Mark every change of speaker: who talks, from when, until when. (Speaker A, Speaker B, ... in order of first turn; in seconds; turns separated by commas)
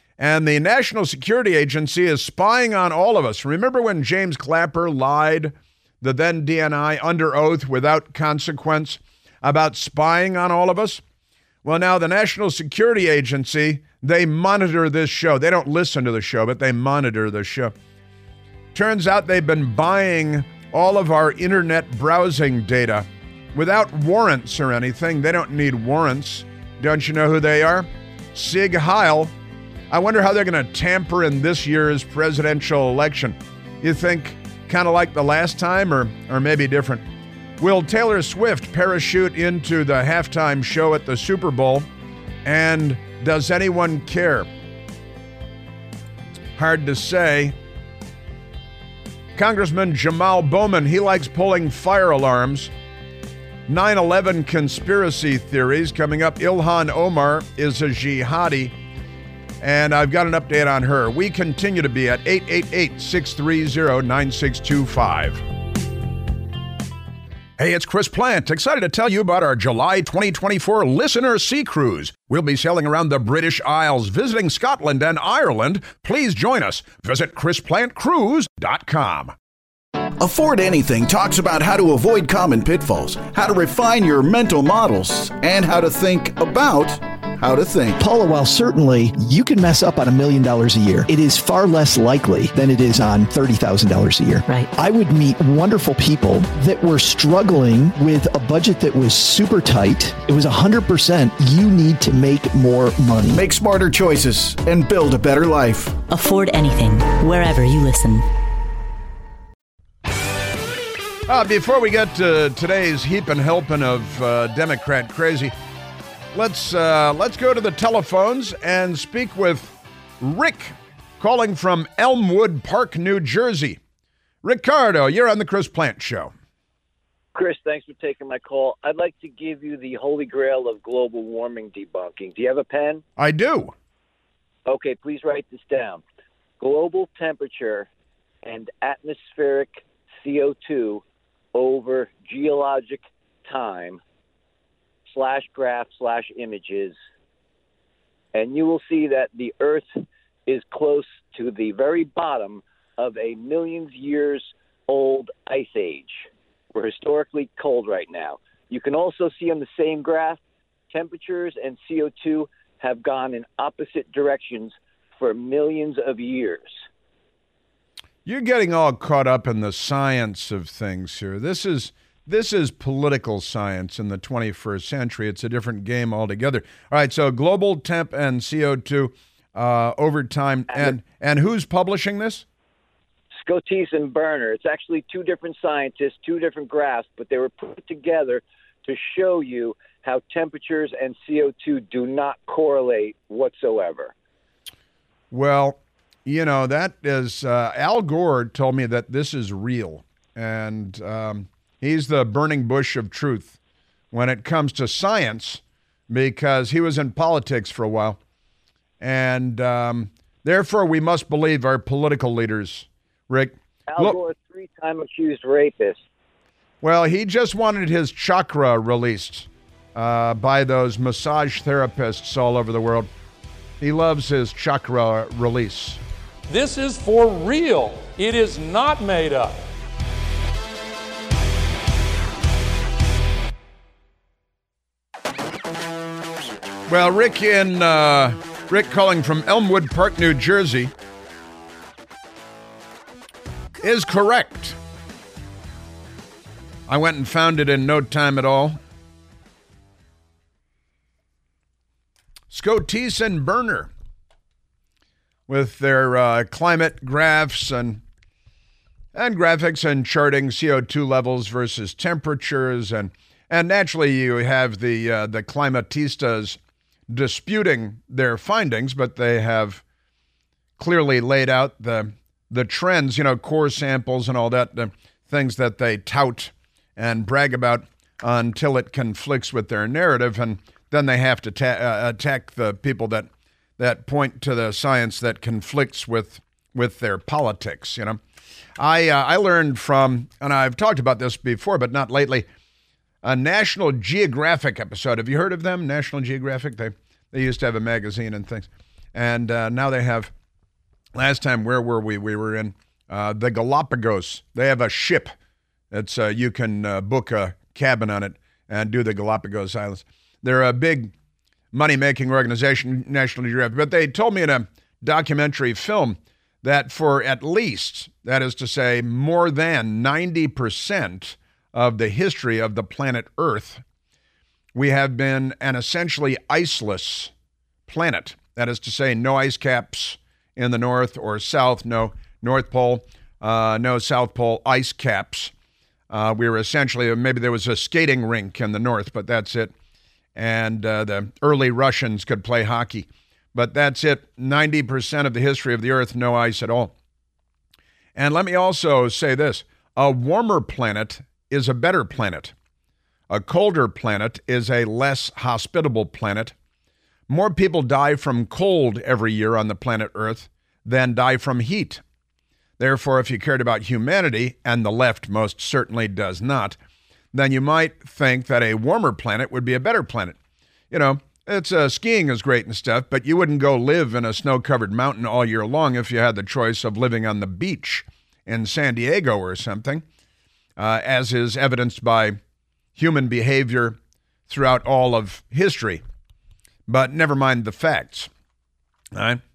Speaker A: 0.2-11.0, Speaker A: 11.6-17.7, Speaker A: 18.7-29.3, Speaker A: 29.9-37.0, Speaker A: 37.6-41.9, Speaker A: 42.4-44.5, Speaker A: 46.5-47.5, Speaker A: 49.3-52.7, Speaker A: 53.7-58.7, Speaker A: 59.6-65.4, Speaker A: 67.6-79.3, Speaker B: 80.2-88.0, Speaker C: 88.0-103.4, Speaker B: 103.3-106.0, Speaker D: 106.1-108.2, Speaker A: 111.3-115.5, Speaker A: 116.3-123.8, Speaker A: 124.4-126.3, Speaker E: 127.3-133.0, Speaker A: 133.2-133.7, Speaker E: 134.7-136.0, Speaker E: 136.6-137.9, Speaker E: 138.4-144.0, Speaker E: 145.1-146.9, Speaker E: 148.3-166.7, Speaker A: 168.2-182.4, Speaker E: 180.7-180.9, Speaker E: 183.4-194.1, Speaker A: 195.3-203.6, Speaker A: 204.1-208.2, Speaker A: 209.0-214.2, Speaker E: 213.9-216.0, Speaker A: 216.8-223.1, Speaker A: 223.8-226.0, Speaker F: 226.5-229.6, Speaker A: 236.9-240.9, Speaker A: 243.8-244.8, Speaker A: 246.9-248.8, Speaker A: 252.5-253.9, Speaker A: 255.5-258.0, Speaker A: 259.1-266.6, Speaker A: 267.1-269.8, Speaker A: 270.8-288.2, Speaker A: 288.8-292.5, Speaker A: 293.2-300.3, Speaker A: 301.1-305.3, Speaker A: 305.9-311.1, Speaker A: 311.7-323.8, Speaker A: 324.7-327.3, Speaker A: 327.9-335.5, Speaker A: 336.1-339.7, Speaker A: 340.3-346.9, Speaker A: 348.1-352.5, Speaker A: 353.3-356.5, Speaker A: 357.3-362.0, Speaker A: 362.8-366.8, Speaker A: 367.3-370.4, Speaker A: 370.9-380.0, Speaker A: 380.8-382.4, Speaker A: 382.9-384.0, Speaker A: 384.5-386.0, Speaker A: 386.9-388.3, Speaker A: 389.1-389.4